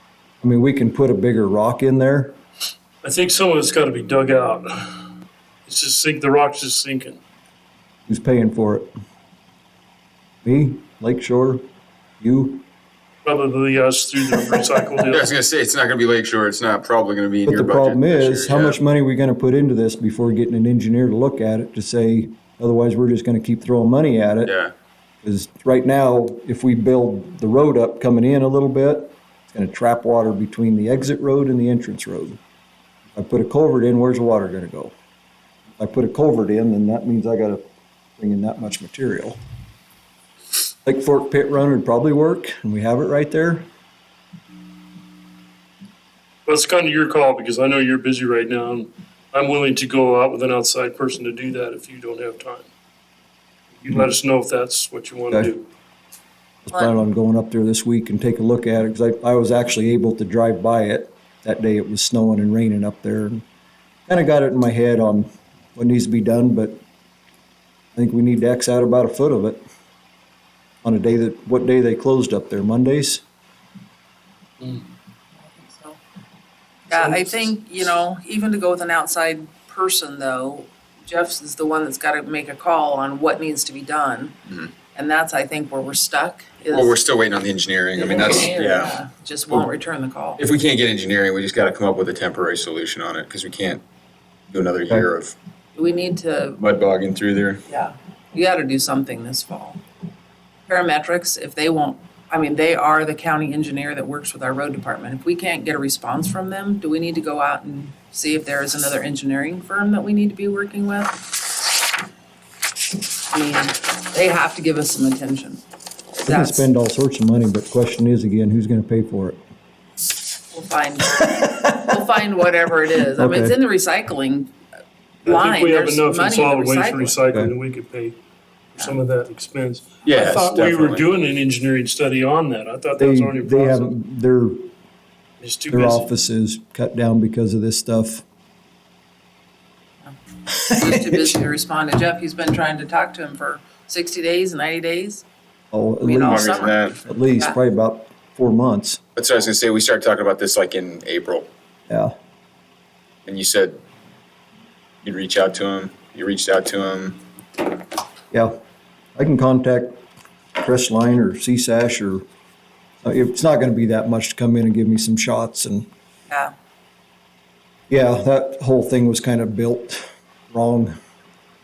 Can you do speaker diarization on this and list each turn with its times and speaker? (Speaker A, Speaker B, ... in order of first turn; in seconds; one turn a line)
Speaker A: 0.4-2.3
Speaker B: 3.0-5.0
Speaker B: 5.7-7.2
Speaker A: 8.1-8.9
Speaker A: 10.4-11.6
Speaker A: 12.2-12.6
Speaker B: 13.2-15.3
Speaker C: 15.1-18.8
Speaker A: 17.4-24.5
Speaker C: 24.4-24.7
Speaker A: 25.2-32.4
Speaker A: 33.1-34.9
Speaker A: 35.8-37.6
Speaker A: 38.2-39.4
Speaker A: 40.9-43.6
Speaker B: 46.5-52.7
Speaker B: 53.8-55.6
Speaker A: 56.6-63.4
Speaker A: 64.1-66.8
Speaker A: 67.9-69.6
Speaker A: 70.8-73.2
Speaker D: 75.5-76.0
Speaker D: 76.9-84.3
Speaker B: 76.9-77.4
Speaker D: 84.9-87.0
Speaker C: 86.7-89.0
Speaker D: 87.9-90.4
Speaker C: 90.4-93.8
Speaker C: 94.5-95.3
Speaker D: 95.8-96.6
Speaker C: 96.6-97.6
Speaker D: 97.7-99.8
Speaker D: 100.7-111.2
Speaker D: 113.3-115.6
Speaker D: 116.2-116.6
Speaker A: 116.2-119.4
Speaker D: 120.5-124.5
Speaker A: 123.2-123.6
Speaker D: 125.2-127.2
Speaker B: 125.2-128.2
Speaker B: 128.8-133.9
Speaker C: 130.0-131.1
Speaker A: 133.0-134.7
Speaker B: 135.4-136.1
Speaker A: 135.7-138.2
Speaker D: 140.0-145.2
Speaker A: 145.7-149.0
Speaker D: 146.0-147.6
Speaker C: 146.2-147.0
Speaker C: 149.2-151.5
Speaker A: 151.9-152.1
Speaker C: 153.2-153.8
Speaker C: 155.0-157.2
Speaker A: 158.3-158.6
Speaker A: 159.2-160.0
Speaker A: 160.5-162.2
Speaker A: 163.0-165.9
Speaker A: 167.9-170.9